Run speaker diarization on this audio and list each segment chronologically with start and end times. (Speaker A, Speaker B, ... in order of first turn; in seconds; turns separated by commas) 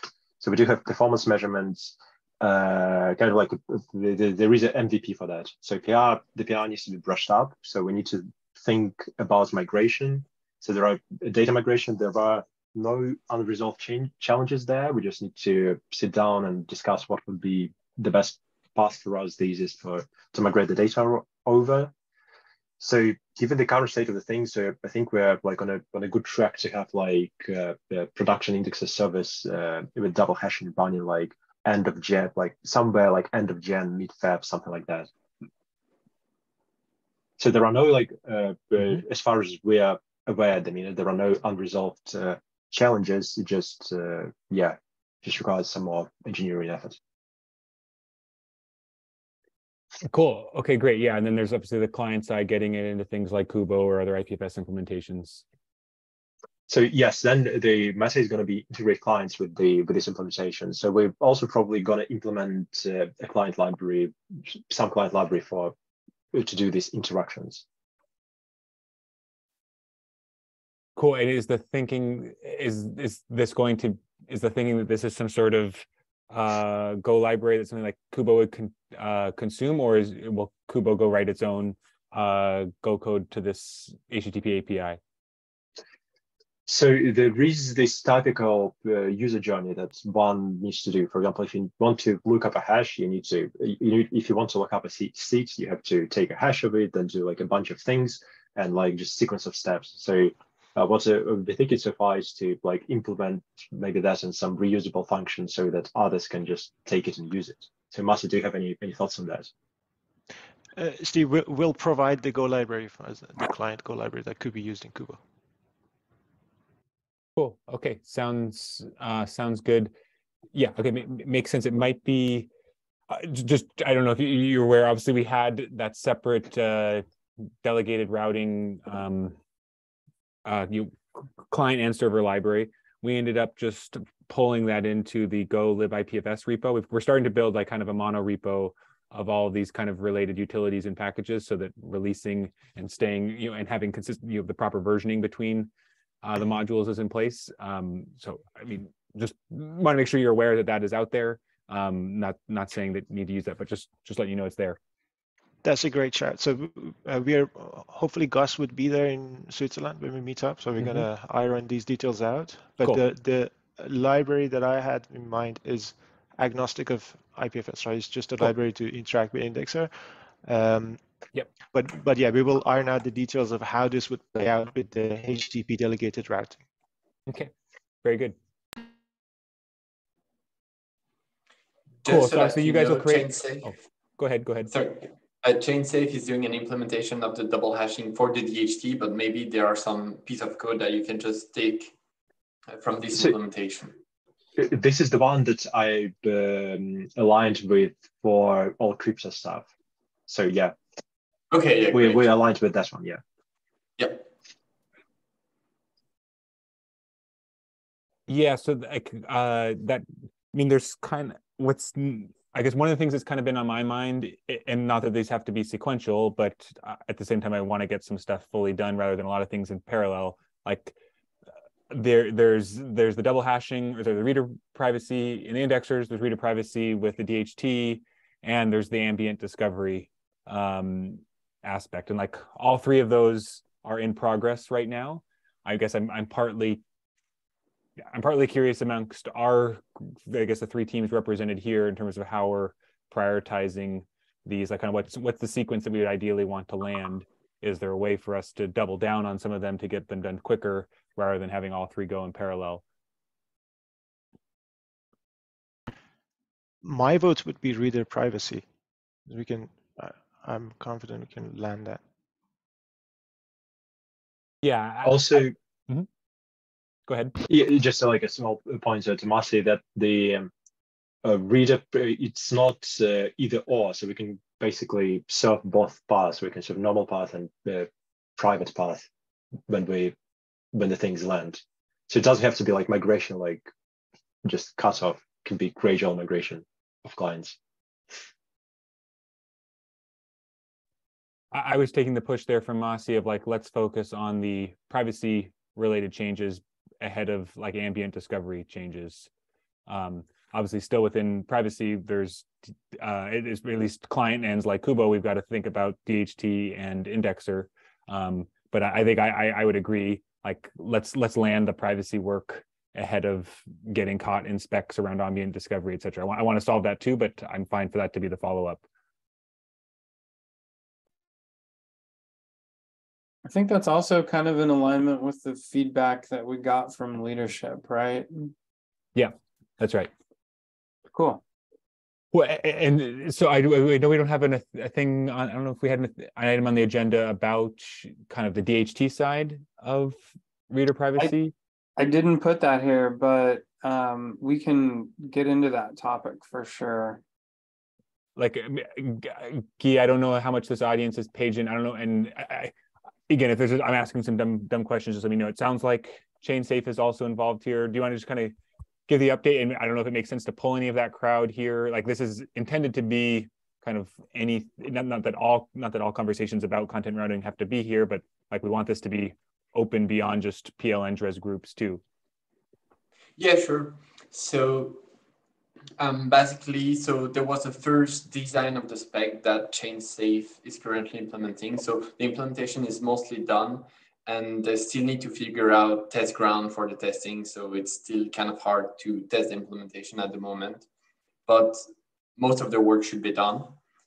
Speaker A: 0.4-21.9, Speaker A: 22.8-35.1, Speaker A: 37.4-47.0, Speaker B: 50.0-55.4, Speaker A: 56.7-65.7, Speaker A: 66.3-67.6, Speaker B: 71.0-85.0, Speaker A: 86.7-109.5, Speaker C: 110.7-115.2, Speaker B: 117.3-119.9, Speaker B: 120.5-122.5, Speaker B: 123.1-127.0, Speaker B: 127.6-129.4, Speaker B: 130.4-145.7, Speaker B: 146.2-154.8, Speaker C: 155.6-169.9, Speaker B: 160.8-161.1, Speaker C: 170.4-171.0, Speaker C: 171.7-176.6, Speaker B: 178.0-178.3, Speaker D: 182.0-183.7, Speaker B: 182.1-184.7, Speaker D: 184.7-191.9, Speaker D: 192.7-194.0, Speaker A: 194.6-199.7, Speaker A: 200.3-200.7, Speaker D: 201.5-202.3, Speaker A: 201.9-203.2, Speaker D: 204.0-204.3, Speaker B: 208.3-220.9, Speaker B: 221.9-236.8, Speaker B: 238.1-252.8, Speaker C: 256.8-258.6, Speaker C: 259.3-262.0, Speaker B: 264.6-266.1, Speaker A: 265.0-265.5, Speaker B: 267.1-267.3, Speaker A: 267.4-270.5, Speaker A: 271.2-279.1, Speaker A: 279.7-280.1, Speaker A: 280.7-283.7, Speaker A: 284.4-287.6, Speaker B: 291.5-299.3, Speaker B: 299.9-318.8, Speaker E: 323.4-328.5, Speaker B: 329.1-330.1, Speaker E: 331.1-331.4, Speaker B: 332.3-341.5, Speaker E: 342.0-347.2, Speaker B: 348.4-352.7, Speaker B: 353.3-358.5, Speaker B: 359.1-372.0, Speaker D: 373.4-375.0, Speaker D: 376.0-390.9, Speaker D: 391.5-391.8, Speaker D: 392.4-393.8